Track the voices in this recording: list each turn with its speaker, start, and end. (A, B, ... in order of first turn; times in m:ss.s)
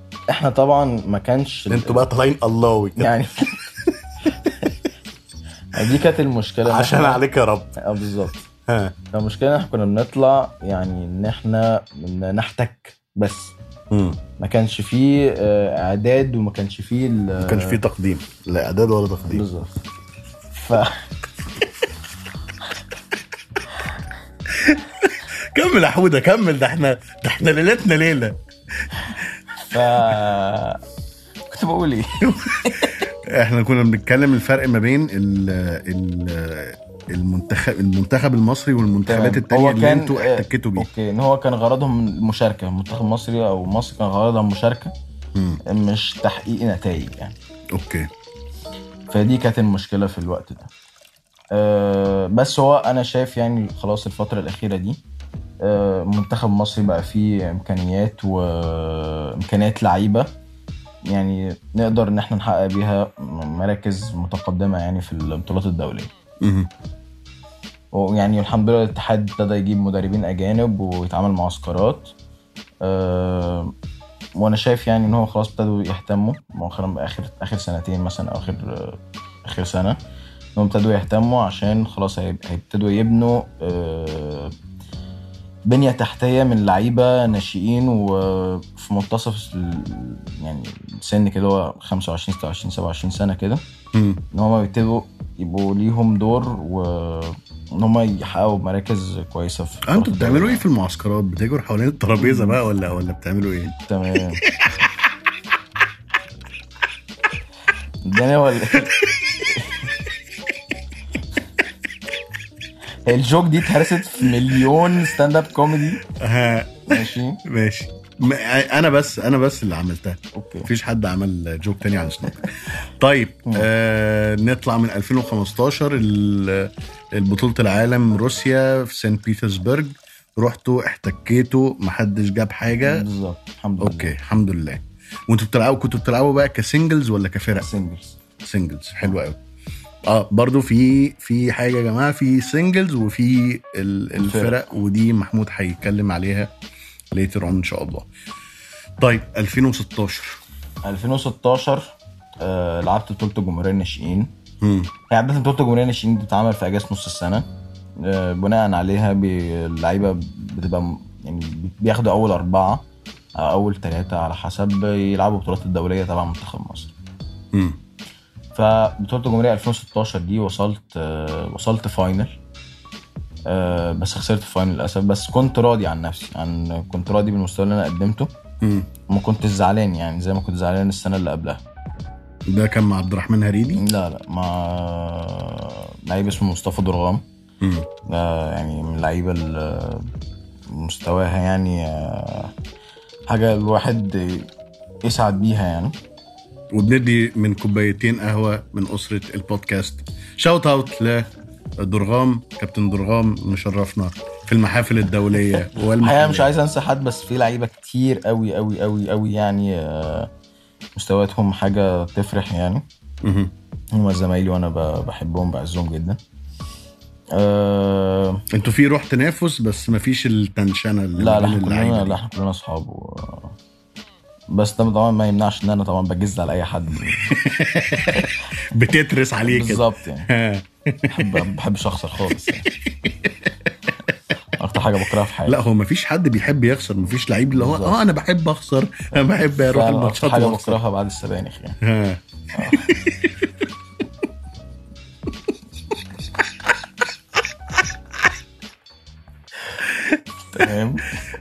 0:00.3-0:02.1 A
0:01.7-0:03.1 B
0:03.0-0:03.6 A
0:04.4-0:04.7 A
0:05.7-0:07.2 A
0:06.7-0:07.8 B
0:07.8-0:08.4 A
0:08.7-0:09.0 B
0:09.1-0:13.5 A
0:13.9-0:14.2 B
0:14.4-0:17.8 A
0:17.4-0:19.4 B
0:19.3-0:19.8 A
0:20.5-0:21.1 A
0:24.5-0:29.2 B
0:29.6-0:30.8 A
0:31.5-0:33.0 A
0:32.2-0:40.9 B
0:39.1-0:44.9 A
0:45.4-0:45.6 B
0:45.7-0:47.4 A
0:47.8-0:48.1 B
0:49.1-0:50.7 A
0:51.5-0:55.0 A
0:55.6-1:00.3 A
1:01.1-1:06.1 A
1:06.4-1:06.7 B
1:07.9-1:12.1 A
1:12.8-1:13.7 A
1:14.4-1:20.0 A
1:20.6-1:24.5 A
1:25.7-1:33.6 A
1:33.9-1:34.2 B
1:34.3-1:40.7 A
1:39.9-1:43.8 B
1:42.2-1:42.6 A
1:43.8-1:44.4 A
1:44.5-1:44.8 B
1:48.0-1:49.9 A
1:49.1-1:49.4 B
1:53.1-1:56.0 A
1:56.0-2:13.0 B
1:56.9-1:57.4 A
2:00.3-2:00.7 A
2:12.8-2:14.2 A
2:13.8-2:17.7 B
2:17.5-2:18.2 A
2:18.4-2:19.4 B
2:20.1-2:26.5 B
2:24.2-2:24.6 A
2:27.1-2:28.1 B
2:29.0-2:30.4 B
2:30.8-2:34.3 A
2:34.6-2:34.9 B
2:35.1-2:37.5 A
2:38.0-2:42.9 A
2:43.4-2:47.0 A
2:47.5-2:47.8 B
2:48.6-2:52.4 A
2:53.5-2:58.3 A
2:58.6-2:58.9 B
2:59.1-3:01.6 A
3:02.5-3:03.8 B
3:03.8-3:07.2 A
3:07.6-3:07.9 B
3:08.1-3:10.1 A
3:10.7-3:12.5 A
3:13.3-3:14.5 A
3:15.0-3:16.0 A
3:16.7-3:21.3 B
3:21.8-3:26.5 B
3:26.0-3:30.3 A
3:31.0-3:32.9 A
3:33.2-3:33.5 B
3:33.9-3:36.2 A
3:37.3-3:38.4 A
3:38.5-3:42.2 B
3:41.2-3:43.6 A
3:44.5-3:47.4 A
3:47.3-3:51.5 B
3:49.5-3:50.3 A
3:51.1-3:52.7 A
3:53.1-3:53.5 B
3:54.6-3:55.6 A
3:55.4-4:00.8 B
3:57.6-3:58.0 A
3:59.6-4:01.8 A
4:01.8-4:03.4 B
4:02.6-4:02.9 A
4:10.5-4:11.2 A